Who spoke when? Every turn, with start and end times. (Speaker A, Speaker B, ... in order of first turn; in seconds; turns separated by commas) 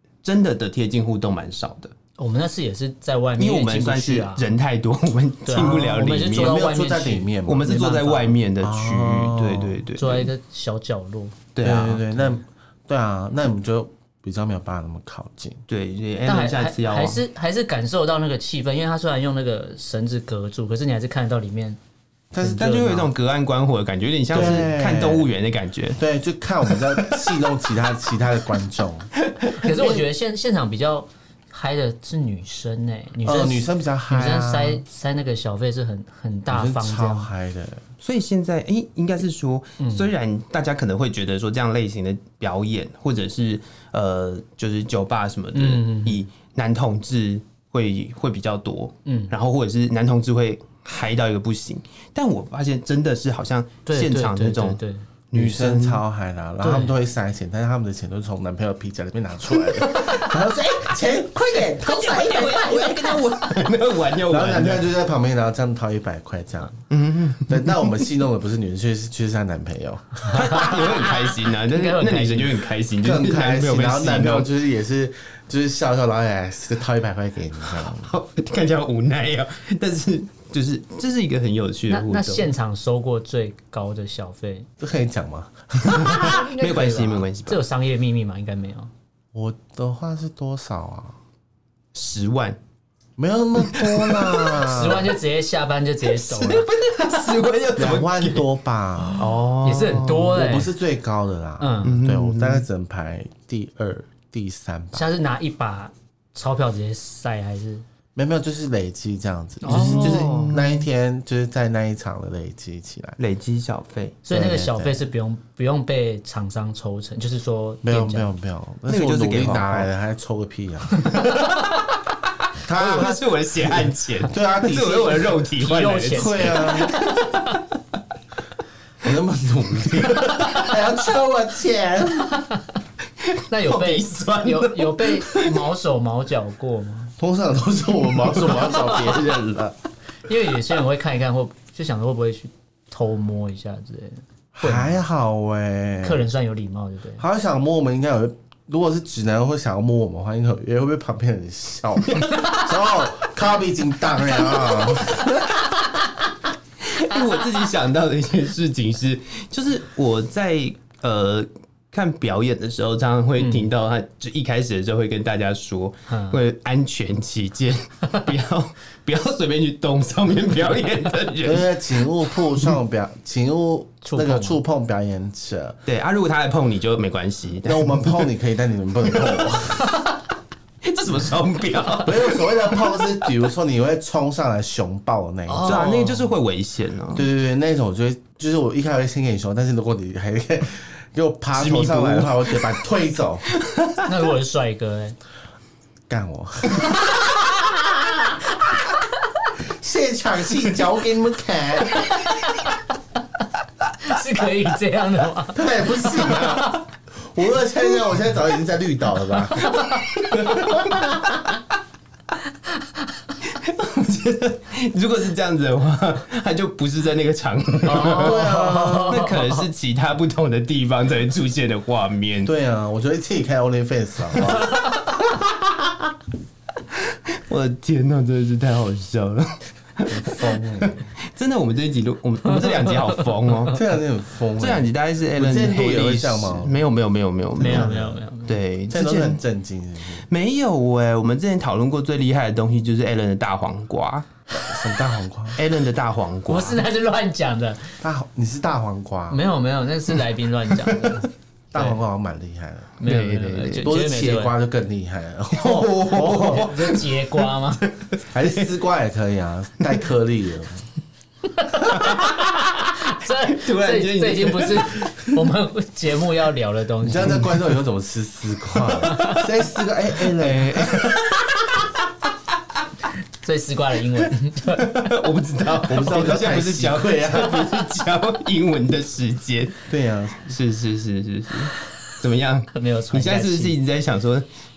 Speaker A: 0.2-1.9, Speaker B: 2.2-4.5, Speaker A: 3.4-6.7, Speaker B: 5.5-8.4, Speaker C: 5.6-7.7, Speaker A: 7.5-10.3, Speaker C: 8.6-9.8, Speaker B: 10.0-11.5, Speaker A: 11.5-12.0, Speaker C: 11.6-15.6, Speaker A: 15.7-17.2, Speaker B: 16.2-21.8, Speaker C: 22.3-22.6, Speaker B: 22.4-23.1, Speaker A: 22.4-26.0, Speaker C: 24.3-25.3, Speaker B: 24.3-24.7, Speaker C: 26.0-29.1, Speaker A: 26.7-27.2, Speaker B: 29.6-37.3, Speaker C: 29.7-30.0, Speaker C: 33.2-34.8, Speaker C: 36.5-37.8, Speaker A: 38.0-54.8, Speaker B: 39.8-40.1, Speaker B: 45.5-46.3, Speaker B: 49.0-49.3, Speaker B: 53.9-55.1, Speaker A: 55.3-56.0, Speaker C: 55.3-63.0, Speaker B: 56.6-56.9, Speaker A: 59.7-60.2, Speaker A: 61.6-64.9, Speaker B: 62.4-62.8, Speaker C: 64.3-66.8, Speaker A: 66.9-68.0, Speaker C: 67.5-70.6, Speaker A: 70.3-74.5, Speaker B: 70.3-72.6, Speaker C: 73.0-78.1, Speaker A: 77.6-82.5, Speaker B: 81.9-84.7, Speaker C: 84.8-86.3, Speaker A: 85.8-87.6, Speaker B: 85.9-88.9, Speaker C: 89.3-91.2, Speaker A: 91.9-92.6, Speaker C: 93.2-95.1, Speaker A: 93.6-94.8, Speaker B: 94.6-96.7, Speaker A: 96.0-98.5, Speaker C: 97.8-99.3, Speaker A: 99.0-100.4, Speaker B: 99.6-100.7, Speaker C: 100.3-105.0, Speaker B: 101.6-102.0, Speaker A: 101.8-102.7, Speaker B: 104.9-107.8, Speaker C: 108.1-113.2, Speaker B: 109.6-110.5, Speaker A: 109.6-110.8, Speaker A: 113.2-114.2, Speaker B: 114.2-118.3, Speaker C: 114.3-115.0, Speaker C: 117.8-121.1, Speaker A: 118.9-119.9, Speaker A: 121.1-121.6, Speaker C: 122.6-125.4, Speaker A: 122.7-127.6, Speaker B: 125.5-127.5, Speaker C: 126.1-126.9, Speaker C: 129.0-132.4, Speaker A: 130.1-130.7, Speaker A: 133.2-135.7, Speaker B: 133.5-137.1, Speaker C: 137.2-139.8, Speaker B: 140.2-145.0, Speaker C: 144.5-146.2, Speaker B: 146.0-147.2, Speaker C: 147.2-155.3, Speaker A: 152.1-152.9, Speaker A: 154.3-155.8, Speaker A: 156.8-171.8, Speaker B: 163.4-163.7, Speaker B: 166.1-166.4, Speaker C: 171.4-175.8, Speaker B: 174.0-174.6, Speaker A: 175.8-178.3, Speaker C: 177.6-179.9, Speaker A: 179.1-179.9, Speaker A: 180.8-183.3, Speaker C: 182.0-185.9, Speaker B: 185.5-186.3, Speaker A: 185.6-187.2, Speaker C: 187.1-193.5, Speaker A: 191.5-192.8, Speaker A: 193.6-194.0, Speaker B: 194.0-195.2, Speaker C: 196.1-197.3, Speaker C: 199.7-202.1, Speaker B: 202.3-202.6, Speaker B: 204.0-205.7, Speaker C: 205.5-211.3, Speaker B: 209.6-210.1, Speaker A: 210.3-210.9, Speaker A: 213.4-222.5, Speaker B: 217.8-219.7, Speaker C: 218.2-219.2, Speaker C: 222.4-224.9, Speaker A: 226.9-233.8, Speaker C: 230.1-231.0, Speaker C: 233.7-236.8, Speaker A: 234.6-239.4, Speaker C: 237.6-238.2, Speaker B: 237.6-238.6, Speaker C: 238.9-240.2, Speaker A: 240.2-244.3, Speaker C: 244.5-245.6, Speaker A: 245.6-246.8, Speaker B: 246.5-248.0, Speaker C: 248.0-249.5, Speaker B: 249.3-251.9, Speaker A: 250.8-251.1, Speaker C: 251.7-253.0, Speaker B: 253.0-254.5, Speaker A: 253.0-253.9, Speaker C: 253.8-256.8, Speaker A: 255.5-258.6, Speaker B: 256.1-257.9, Speaker C: 258.3-260.9, Speaker B: 261.6-267.6, Speaker A: 261.9-265.3, Speaker C: 267.0-271.1, Speaker A: 269.0-269.3, Speaker B: 269.1-269.4, Speaker A: 270.3-271.8, Speaker B: 273.4-275.1, Speaker A: 274.7-279.8, Speaker C: 275.9-277.7, Speaker C: 279.9-280.5, Speaker A: 280.4-284.4, Speaker B: 282.7-283.7